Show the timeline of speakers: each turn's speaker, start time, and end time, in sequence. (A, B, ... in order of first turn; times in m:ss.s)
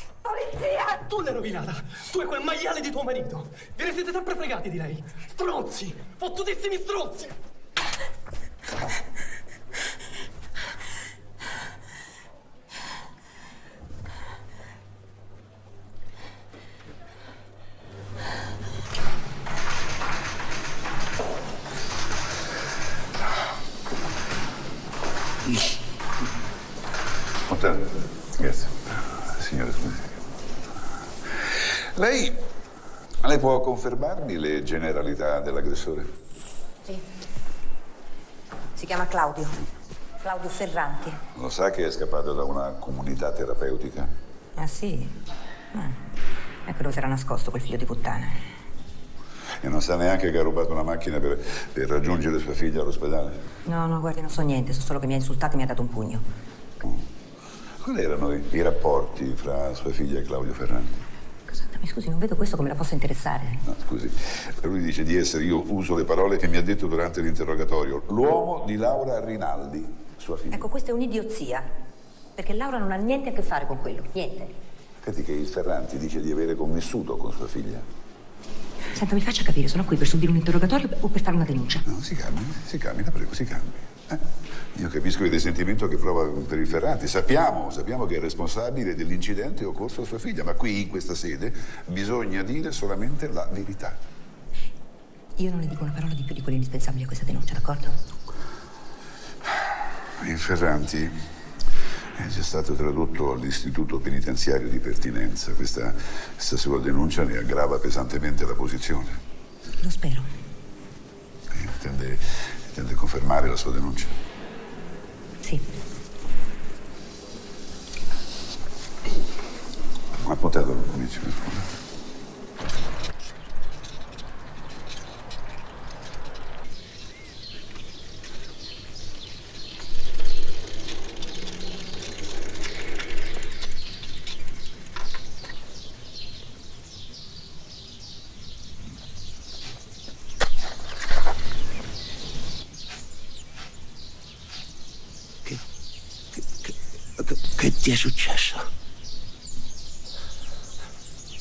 0:00.2-0:01.0 A
0:01.2-0:07.2 B
0:27.5-0:30.2 C
0:31.7-0:32.4 C
0:33.2-0:36.1 C
0:38.8-0:39.6 A
0:40.2-0:41.2 A
0:41.3-0:44.1 C
0:44.6-0:45.2 A
0:45.7-0:46.0 A
0:46.6-0:48.4 A
0:49.6-0:53.4 C
0:53.6-0:56.2 A
0:57.8-1:01.0 C
1:01.5-1:03.6 A
1:03.6-1:10.6 C
1:10.5-1:11.7 A
1:12.4-1:14.5 A
1:15.0-1:17.8 C
1:18.9-1:21.8 A
1:21.9-1:34.0 C
1:35.4-1:37.9 A
1:40.2-1:41.2 C
1:42.2-1:49.2 C
1:49.8-1:50.3 A
1:51.5-1:54.1 C
2:00.2-2:01.6 C
2:26.6-2:28.7 D